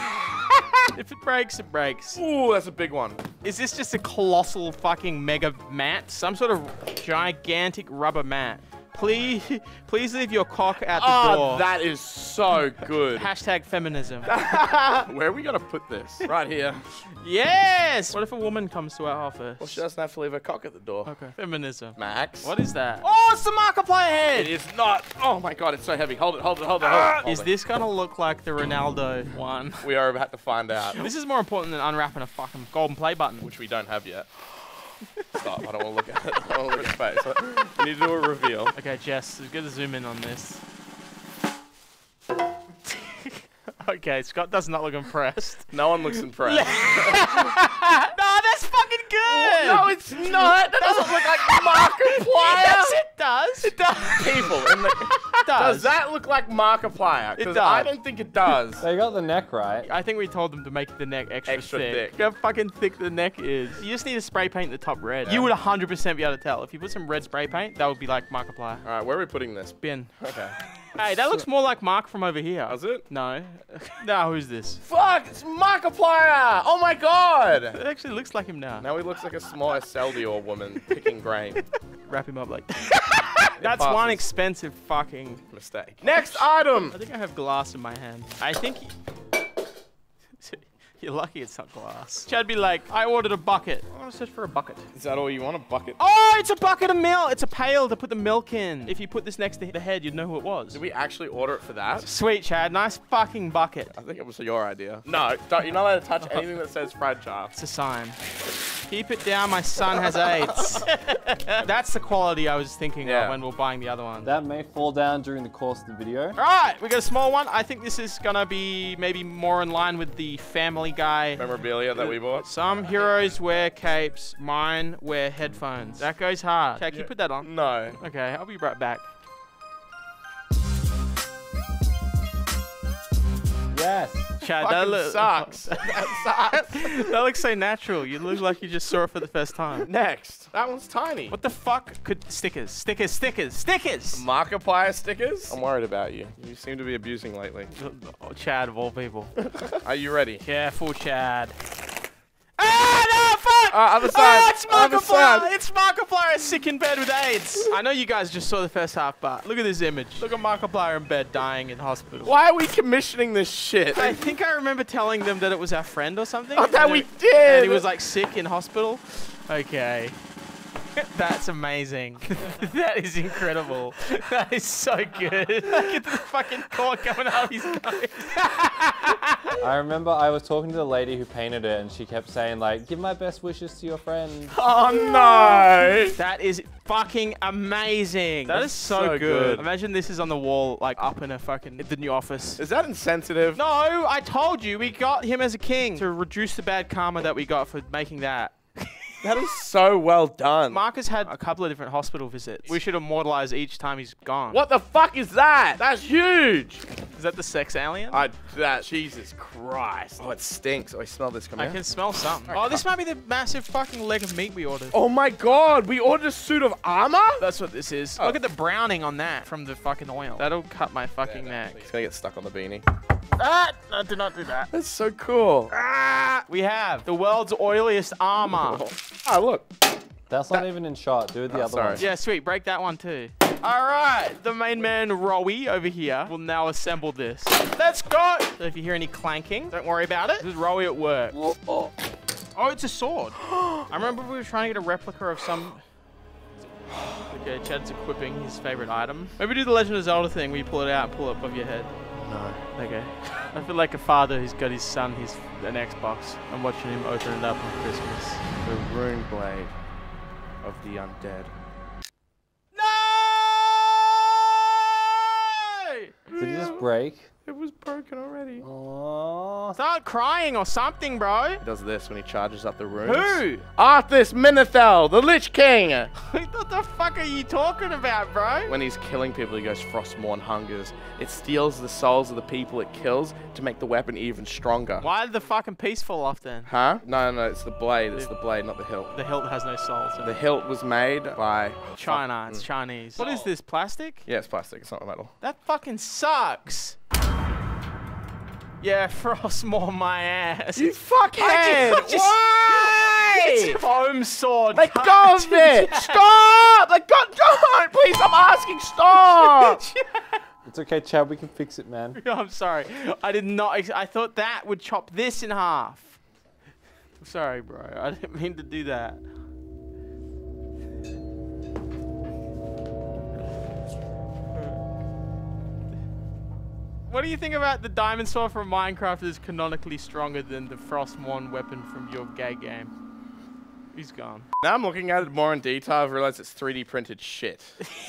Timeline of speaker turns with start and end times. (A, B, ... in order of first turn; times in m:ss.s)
0:00.4-0:02.2 A
0:02.2-0:03.2 B
0:03.4-0:11.7 A
0:10.9-0:13.3 B
0:13.2-0:14.4 A
0:14.3-0:16.8 B
0:17.2-0:19.8 A
0:19.6-0:21.1 B
0:21.1-0:24.5 A
0:22.0-0:22.5 B
0:24.3-0:27.5 B
0:26.8-0:29.9 A
0:29.8-0:31.1 B
0:30.9-0:33.5 A
0:33.4-0:34.5 B
0:35.3-0:38.8 B
0:38.8-0:40.6 A
0:42.9-0:45.8 A
0:45.7-0:47.6 B
0:46.4-0:55.9 A
0:49.2-0:53.0 B
0:54.0-0:58.8 B
0:57.4-0:57.9 A
0:58.8-0:59.9 C
0:59.9-1:08.8 A
1:01.5-1:02.2 B
1:05.2-1:05.5 B
1:08.8-1:10.6 B
1:09.8-1:10.1 A
1:10.9-1:14.8 A
1:12.7-1:13.0 B
1:14.8-1:17.8 B
1:17.7-1:18.9 A
1:18.8-1:21.6 B
1:22.1-1:25.4 A
1:23.6-1:24.2 B
1:25.5-1:27.0 B
1:26.0-1:28.9 A
1:30.4-1:34.8 A
1:34.9-1:36.0 B
1:36.0-1:40.8 A
1:40.7-1:42.1 B
1:42.0-1:43.9 A
1:43.9-1:47.5 B
1:47.6-1:48.2 A
1:48.9-1:54.3 A
1:53.0-1:53.4 B
1:54.2-1:56.4 C
1:56.4-2:09.0 A
2:01.4-2:02.5 B
2:06.9-2:08.0 B
2:13.7-2:14.3 C
2:14.4-2:17.1 B
2:14.4-2:19.9 A
2:19.8-2:21.4 B
2:21.3-2:24.2 A
2:24.1-2:27.7 B
2:27.8-2:29.4 A
2:29.8-2:30.4 B
2:30.4-2:31.6 A
2:32.6-2:42.3 A
2:33.7-2:35.5 B
2:42.2-2:44.2 B
2:44.0-2:50.2 A
2:46.6-2:47.8 B
2:51.0-2:59.6 A
2:59.6-3:04.6 C
3:04.5-3:06.2 B
3:05.1-3:05.6 A
3:06.2-3:12.6 A
3:08.5-3:09.6 B
3:12.6-3:13.6 B
3:13.6-3:19.1 A
3:19.2-3:20.8 B
3:20.7-3:24.6 A
3:24.5-3:26.8 B
3:27.1-3:28.2 A
3:28.1-3:31.8 B
3:31.6-3:35.0 A
3:32.5-3:32.8 B
3:34.9-3:37.4 B
3:37.4-3:41.8 A
3:41.2-3:42.8 B
3:43.4-3:44.7 A
3:44.7-3:45.8 B
3:45.8-3:48.9 A
3:48.6-3:49.7 B
3:50.3-3:52.0 C
3:51.5-3:52.0 B
3:52.0-4:01.4 A
4:02.6-4:05.8 A
4:07.1-4:11.9 A
4:12.2-4:12.6 B
4:12.8-4:18.4 A
4:18.6-4:19.8 B
4:20.6-4:21.5 B
4:22.8-4:26.6 A
4:26.4-4:27.3 C
4:26.4-4:26.7 B
4:27.4-4:28.7 B
4:28.6-4:29.8 C
4:29.8-4:31.6 A
4:31.6-4:36.1 B
4:33.0-4:33.6 A
4:36.2-4:38.8 A
4:38.7-4:45.1 B
4:45.0-4:46.7 A
4:46.7-4:49.1 B
4:49.1-4:50.4 A
4:50.2-4:53.5 B
4:52.0-4:54.2 A
4:54.3-4:55.3 B
4:55.4-4:57.0 A
4:58.8-5:06.2 A
5:00.8-5:03.8 B
5:04.7-5:09.8 B
5:09.1-5:10.4 A
5:10.7-5:12.2 C
5:12.2-5:16.2 A
5:17.2-5:19.2 A
5:27.1-5:32.9 A
5:33.9-5:34.5 A
5:34.6-5:37.8 B